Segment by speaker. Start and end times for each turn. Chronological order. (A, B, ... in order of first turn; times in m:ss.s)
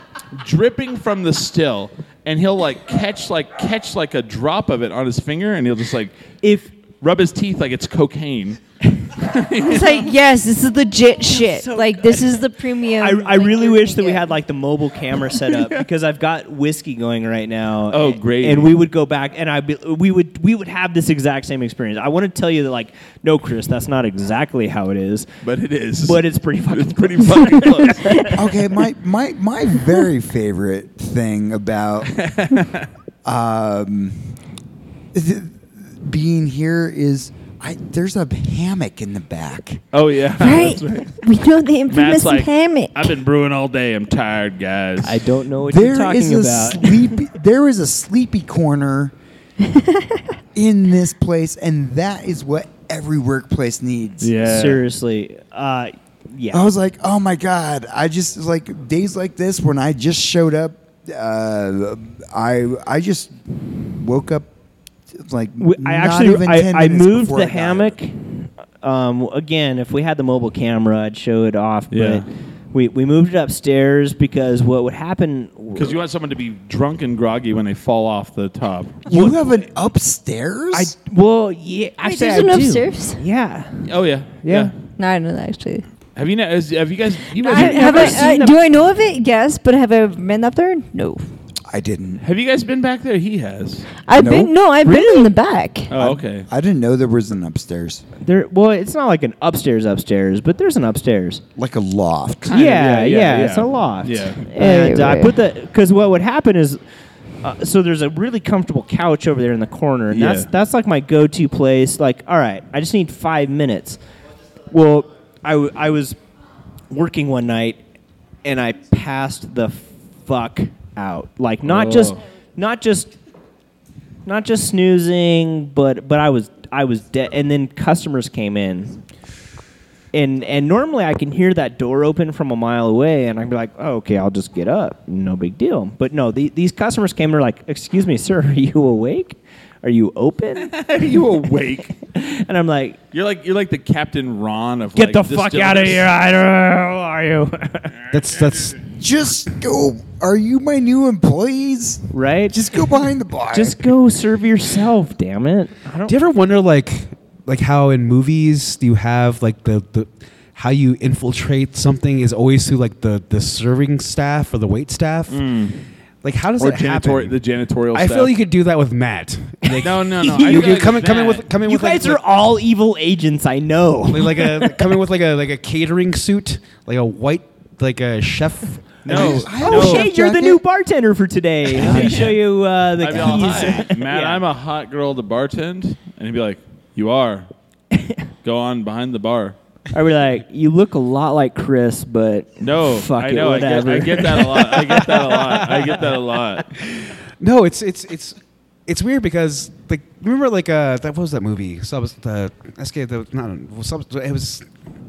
0:00.4-0:06.2 A
0:06.4-0:06.7 B
0:07.0-0:08.6 A
0:09.1-0:10.1 A
0:09.6-0:14.4 C
0:11.3-0:12.4 B
0:13.0-0:25.3 B
0:15.5-0:15.8 A
0:17.9-0:18.7 A
0:25.4-0:28.3 A
0:26.0-0:28.4 B
0:28.3-0:32.1 D
0:32.1-0:32.9 A
0:33.2-0:34.4 D
0:35.1-0:39.8 D
0:39.9-0:41.2 A
0:40.4-0:43.1 C
0:41.9-0:45.2 A
0:45.0-0:47.2 B
0:45.6-0:49.1 D
0:49.6-0:50.2 C
0:50.5-0:54.3 D
0:54.2-0:54.8 A
0:54.4-0:56.6 B
0:56.5-1:04.5 D
1:05.1-1:08.0 D
1:05.6-1:16.0 B
1:11.9-1:12.3 A
1:15.8-1:19.0 A
1:19.0-1:20.9 D
1:19.1-1:19.4 B
1:20.7-1:24.7 B
1:22.0-1:23.2 C
1:23.8-1:24.7 A
1:25.0-1:25.8 C
1:26.2-1:28.3 A
1:27.4-1:31.2 C
1:27.5-1:28.6 B
1:31.7-1:32.2 D
1:32.2-1:33.9 A
1:34.0-1:35.9 C
1:34.2-1:34.5 D
1:34.8-1:35.3 B
1:35.9-1:36.5 A
1:35.9-1:38.0 D
1:38.2-1:41.4 B
1:41.6-1:42.5 D
1:42.4-1:44.4 A
1:42.5-1:46.8 B
1:44.6-1:45.4 C
1:47.4-1:54.0 B
1:50.1-1:50.5 A
1:54.7-1:56.2 B
1:56.9-1:57.8 B
1:58.4-2:03.1 B
2:01.6-2:02.2 A
2:04.2-2:09.0 B
2:10.1-2:20.7 B
2:20.6-2:22.0 A
2:22.1-2:23.0 B
2:23.1-2:26.1 A
2:24.9-2:27.9 B
2:28.1-2:28.8 E
2:28.1-2:28.7 A
2:29.0-2:33.9 D
2:32.1-2:32.7 B
2:33.5-2:36.2 B
2:36.1-2:45.4 E
2:45.3-2:45.8 A
2:46.2-2:47.4 E
2:46.6-2:48.4 A
2:47.9-2:52.2 E
2:49.6-2:50.8 B
2:49.8-2:51.5 A
2:51.6-2:55.0 B
2:54.1-2:59.5 E
2:59.0-3:00.0 A
2:59.1-3:00.6 D
2:59.4-3:04.4 B
3:01.8-3:02.4 A
3:01.8-3:02.2 E
3:01.9-3:02.2 D
3:03.0-3:07.5 A
3:07.9-3:08.2 B
3:08.4-3:09.6 A
3:09.9-3:16.2 B
3:12.6-3:16.6 A
3:16.8-3:24.7 E